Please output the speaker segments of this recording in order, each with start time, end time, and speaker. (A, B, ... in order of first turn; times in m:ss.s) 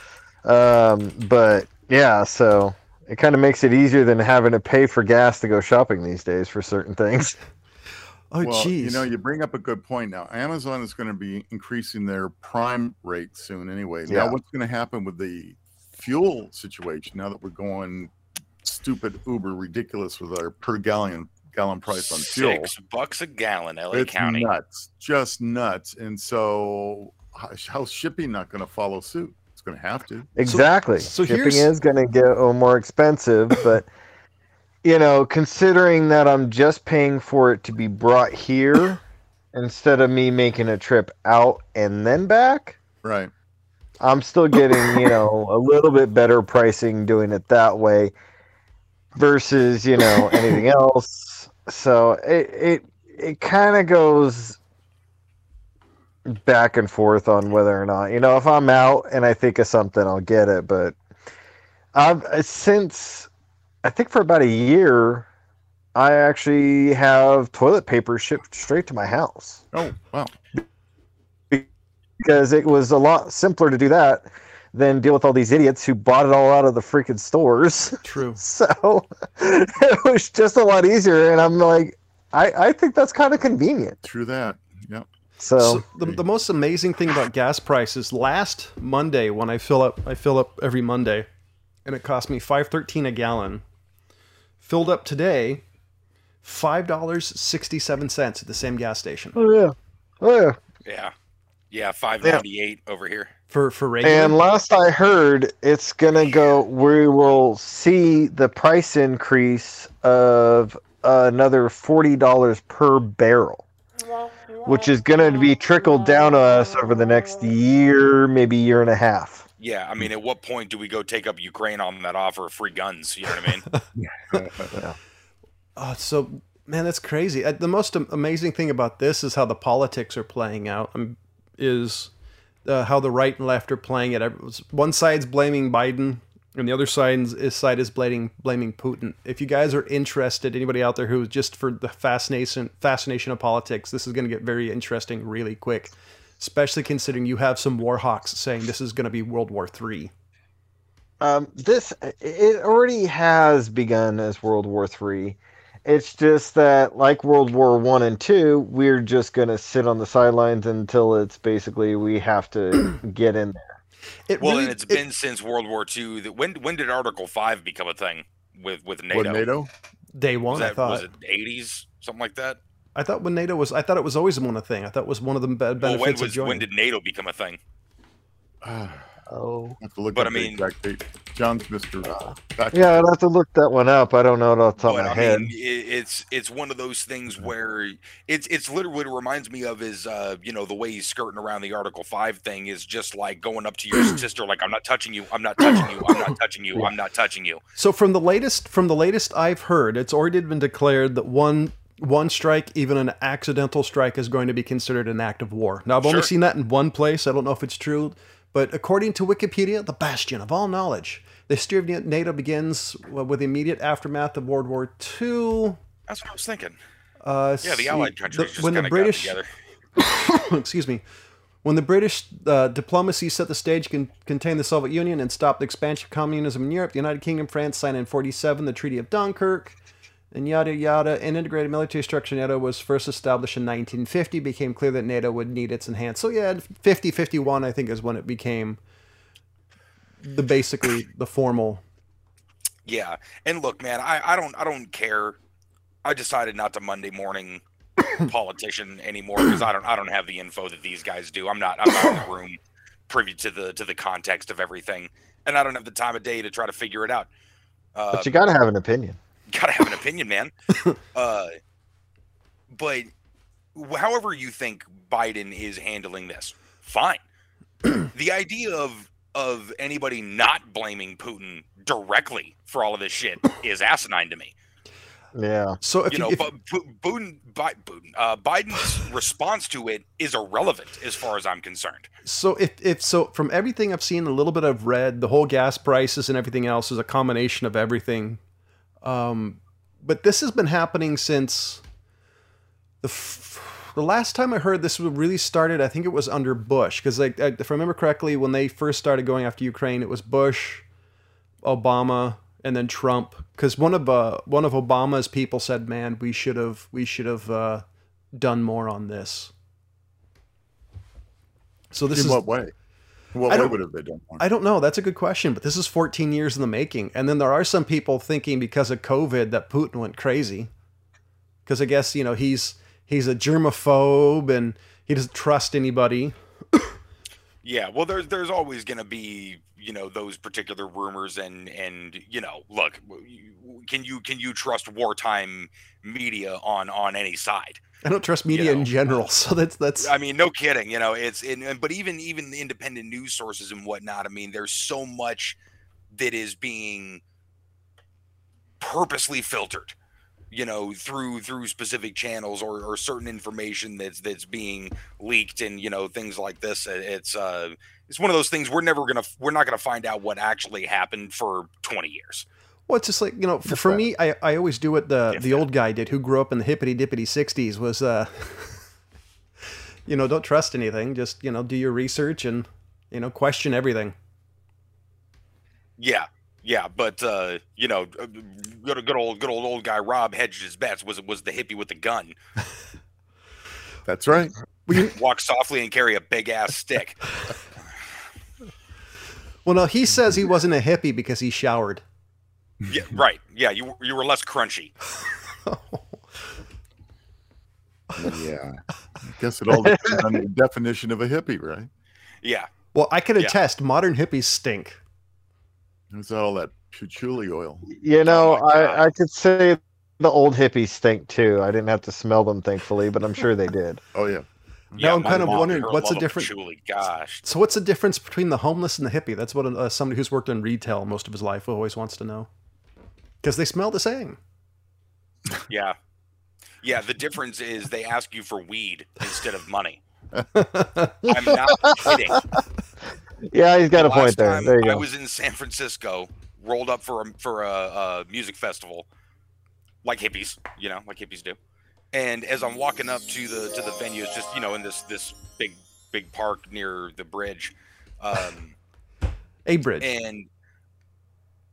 0:00.4-0:07.4 A
0:08.3-0:09.0 B
0:08.4-0:18.1 C
0:14.1-0:14.4 A
0:18.6-0:22.7 C
0:22.0-0:24.5 D
0:23.9-0:30.3 C
0:30.4-0:33.9 A
0:30.4-0:31.7 B
0:34.8-0:39.0 A
0:39.5-0:42.8 A
0:43.0-0:43.3 C
0:44.0-0:48.1 A
0:49.1-0:54.6 A
0:56.3-1:01.0 A
1:01.9-1:03.3 A
1:03.8-1:05.3 A
1:05.9-1:09.6 A
1:09.7-1:10.3 C
1:12.2-1:24.0 A
1:18.0-1:18.4 B
1:24.0-1:25.1 C
1:25.4-1:25.8 A
1:25.6-1:31.3 B
1:31.8-1:33.6 B
1:34.6-1:35.6 B
1:36.4-1:39.4 B
1:39.4-1:40.6 A
1:40.8-1:41.1 D
1:41.7-1:43.3 D
1:43.5-1:44.4 B
1:44.0-1:53.6 A
1:54.6-1:59.4 A
1:59.6-2:03.6 D
2:04.0-2:04.7 C
2:05.8-2:12.1 B
2:12.6-2:30.1 B
2:31.2-2:43.8 A
2:44.3-2:45.0 B
2:44.4-2:49.5 D
2:49.1-2:49.7 C
2:50.1-2:51.1 B
2:50.5-2:52.6 D
2:52.9-2:56.6 B
2:55.8-2:57.6 D
2:58.6-2:59.1 C
2:59.3-2:59.8 A
2:59.8-3:03.0 C
3:00.1-3:00.6 D
3:02.7-3:05.5 A
3:04.8-3:17.6 D
3:17.8-3:35.8 B
3:26.0-3:26.3 D
3:36.1-3:36.8 D
3:37.2-3:39.4 B
3:37.6-3:39.5 D
3:40.0-3:41.0 B
3:41.6-3:49.8 B
3:50.3-3:58.8 B
4:00.2-4:01.8 B
4:02.8-4:05.4 D
4:06.0-4:07.6 D
4:08.1-4:12.6 D
4:13.1-4:17.3 D
4:17.9-4:18.4 D
4:18.1-4:19.2 A
4:19.5-4:20.5 D
4:21.1-4:21.5 D
4:22.7-4:23.1 D
4:23.7-4:27.2 D
4:28.1-4:34.5 D
4:35.3-4:35.8 A
4:35.8-4:36.5 B
4:36.1-4:42.1 D
4:42.2-4:48.4 B
4:49.0-4:51.8 B
4:53.0-5:00.8 B
5:01.6-5:07.8 B
5:08.3-5:09.5 B
5:11.9-5:12.4 B
5:12.1-5:12.7 C
5:13.3-5:14.4 C
5:13.5-5:13.8 B
5:14.4-5:20.7 B
5:21.6-5:26.9 B
5:27.6-5:37.8 D
5:38.0-5:40.1 B
5:38.5-5:39.0 D
5:40.0-5:45.6 D
5:46.1-5:47.2 D
5:48.8-5:49.9 D
5:50.5-6:02.4 D
6:02.9-6:08.8 B
6:03.7-6:04.0 A
6:05.3-6:05.6 D
6:10.0-6:14.1 B
6:16.0-6:22.4 D
6:24.0-6:24.5 C
6:24.9-6:25.1 B
6:25.0-6:27.2 D
6:29.6-6:32.0 B
6:32.9-6:34.9 D
6:35.6-6:36.2 B
6:38.2-6:41.9 C
6:39.8-6:40.3 A
6:42.4-6:42.7 D
6:42.9-6:45.0 B
6:46.1-6:47.9 C
6:47.9-6:54.0 A
6:48.2-6:49.0 D
6:54.1-6:55.7 C
6:55.0-6:57.4 D
6:55.0-6:56.5 B
6:57.4-7:02.5 B
7:03.4-7:04.4 B
7:05.7-7:06.0 D
7:06.8-7:10.0 D
7:10.5-7:11.2 B
7:11.3-7:12.3 A
7:11.3-7:12.4 D
7:13.5-7:15.0 A
7:13.9-7:19.0 D
7:20.0-7:21.6 D
7:22.1-7:28.7 D
7:29.6-7:30.1 B
7:30.0-7:30.5 D